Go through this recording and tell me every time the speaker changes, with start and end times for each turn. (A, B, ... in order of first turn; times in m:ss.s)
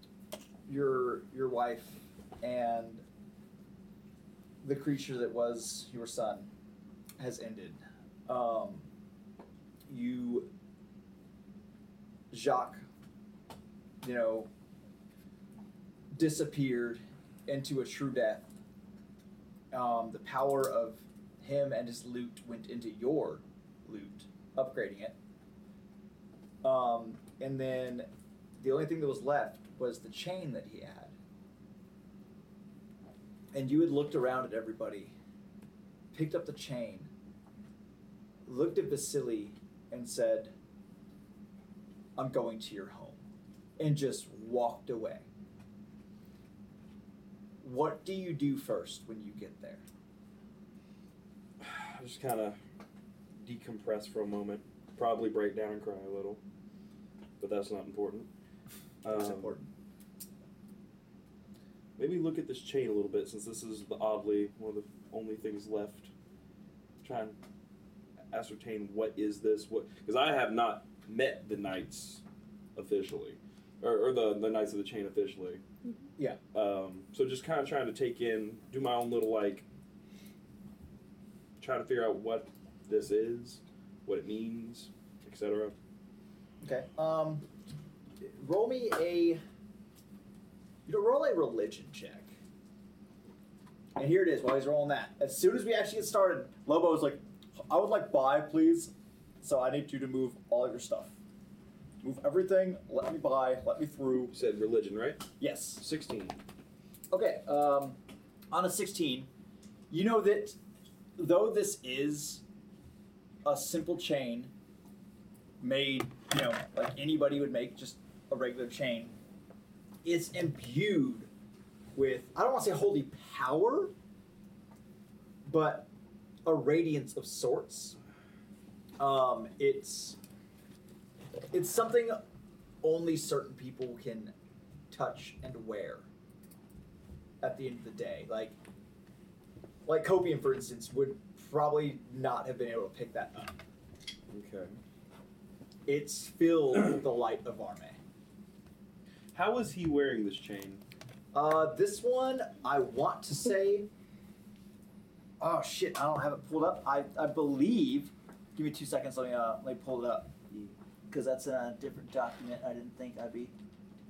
0:00.7-0:03.0 A
0:04.6-0:06.5 A
0:07.2-0:08.9 A
0:09.9-0:10.5 A
0:12.3-0:12.8 A
0:14.0-0:14.5 A
0:16.1-0:18.5 A
0:19.7-0:25.2 A
0:26.6-0:31.1 A
0:33.5-0:35.1 A
0:36.1-0:37.1 A
0:38.5-0:40.5 A
0:42.2-0:43.2 A
0:43.8-0:45.3 A
0:47.6-0:49.8 A
0:51.6-0:52.6 B
0:53.4-0:56.4 B
0:57.4-0:58.3 B
0:59.0-0:59.6 B
0:59.0-0:59.7 A
1:02.0-1:06.1 B
1:07.0-1:07.4 B
1:08.3-1:12.2 B
1:12.8-1:15.6 B
1:16.5-1:19.7 B
1:21.6-1:25.8 B
1:26.6-1:27.5 A
1:28.2-1:29.4 A
1:30.9-1:32.3 A
1:34.0-1:41.2 A
1:42.0-1:44.4 A
1:44.3-1:46.4 B
1:45.4-1:45.8 A
1:47.1-1:48.0 A
1:48.5-1:49.3 A
1:49.9-1:50.6 A
1:51.2-1:52.4 A
1:53.4-1:54.5 A
1:55.6-1:59.2 A
2:00.0-2:01.3 A
2:02.0-2:03.9 A
2:05.4-2:05.9 A
2:06.4-2:08.0 A
2:09.0-2:10.2 A
2:11.5-2:12.2 A
2:12.8-2:14.3 A
2:14.9-2:16.1 A
2:17.4-2:18.6 A
2:19.9-2:23.6 A
2:24.3-2:24.8 B
2:25.9-2:28.0 A
2:29.3-2:30.8 B
2:31.3-2:33.9 A
2:35.4-2:40.3 A
2:41.1-2:43.5 A